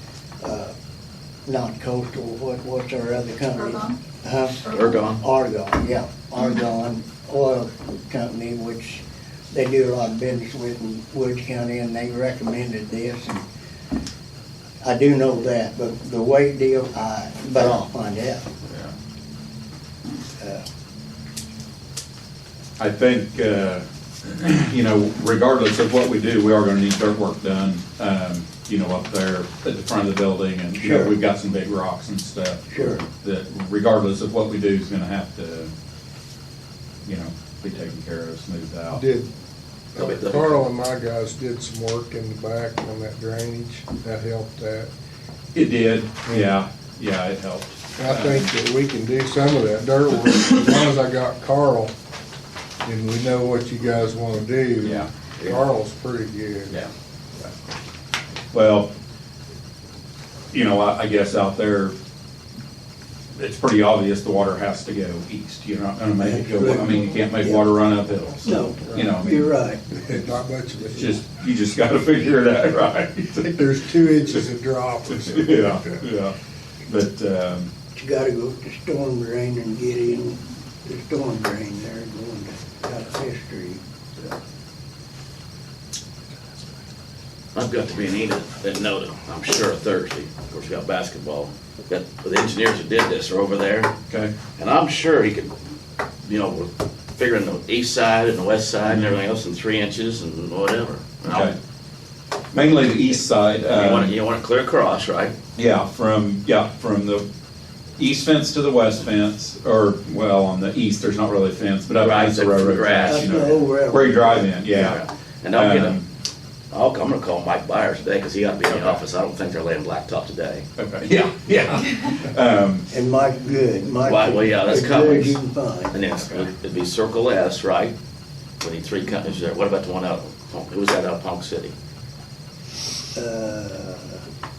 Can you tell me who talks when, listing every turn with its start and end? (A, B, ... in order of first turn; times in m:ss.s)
0:00.4-0:00.7 A
0:01.5-0:13.4 A
0:04.7-0:05.2 B
0:14.8-0:18.4 A
0:20.4-0:20.6 A
0:22.8-0:35.7 C
0:30.8-0:31.2 A
0:32.7-0:33.0 A
0:37.0-0:39.0 C
0:38.9-0:39.3 D
0:39.9-0:44.9 D
0:40.0-0:40.6 B
0:45.5-0:48.5 C
0:46.2-0:46.5 D
0:48.0-0:51.9 D
0:52.8-0:56.8 D
0:54.8-0:55.1 C
0:58.5-0:58.9 C
1:00.5-1:01.9 C
1:03.4-1:09.4 C
1:06.2-1:07.6 A
1:08.4-1:10.0 A
1:10.0-1:11.2 D
1:10.9-1:13.7 C
1:13.4-1:16.0 D
1:15.2-1:16.4 C
1:16.9-1:17.7 C
1:18.0-1:23.8 A
1:27.6-1:33.9 B
1:34.1-1:34.3 C
1:34.6-1:35.5 B
1:36.2-1:41.6 B
1:38.8-1:39.1 C
1:41.2-1:41.6 C
1:42.5-1:44.1 C
1:43.7-1:45.4 B
1:45.6-1:47.2 C
1:48.0-1:56.1 C
1:52.0-1:53.4 B
1:53.1-1:54.4 A
1:54.7-1:56.0 B
1:56.7-2:00.7 B
1:58.7-1:59.0 C
2:00.8-2:02.9 C
2:02.9-2:06.0 A
2:04.0-2:05.4 B
2:05.9-2:08.0 B
2:08.6-2:11.7 B
2:13.1-2:14.2 A